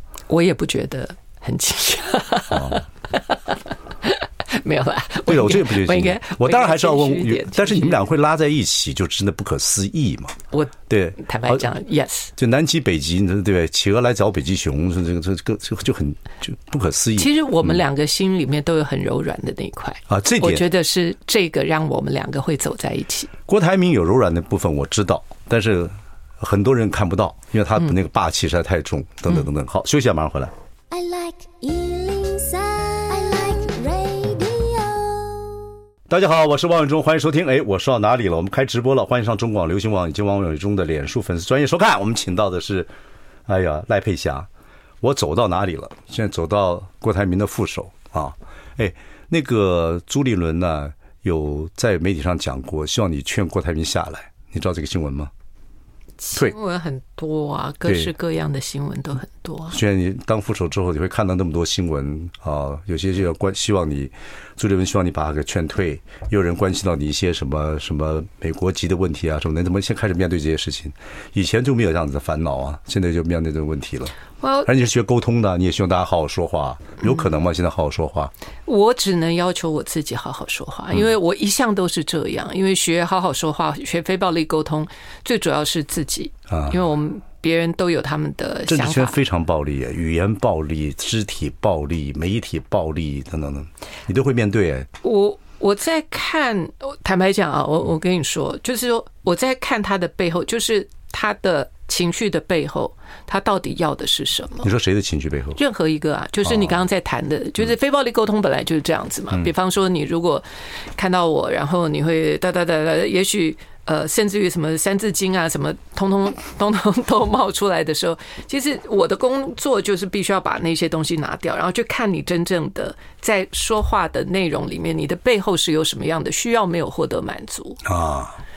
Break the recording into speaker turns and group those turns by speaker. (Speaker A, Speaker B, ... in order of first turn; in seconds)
Speaker A: 0.3-8.0, 10.5-12.3, 17.2-23.3, 56.2-59.8, 74.4-74.7, 78.7-89.2, 95.0-104.7, 105.5-127.8
Speaker B: 2.5-2.8, 5.3-10.3, 10.9-11.6, 12.4-17.8, 20.1-20.6, 23.5-30.5, 36.1-42.9, 43.5-44.5, 45.0-55.3, 57.9-58.1, 59.7-78.3, 86.5-86.8, 88.7-94.9, 104.6-105.6, 127.8-128.4
Speaker C: 30.9-35.7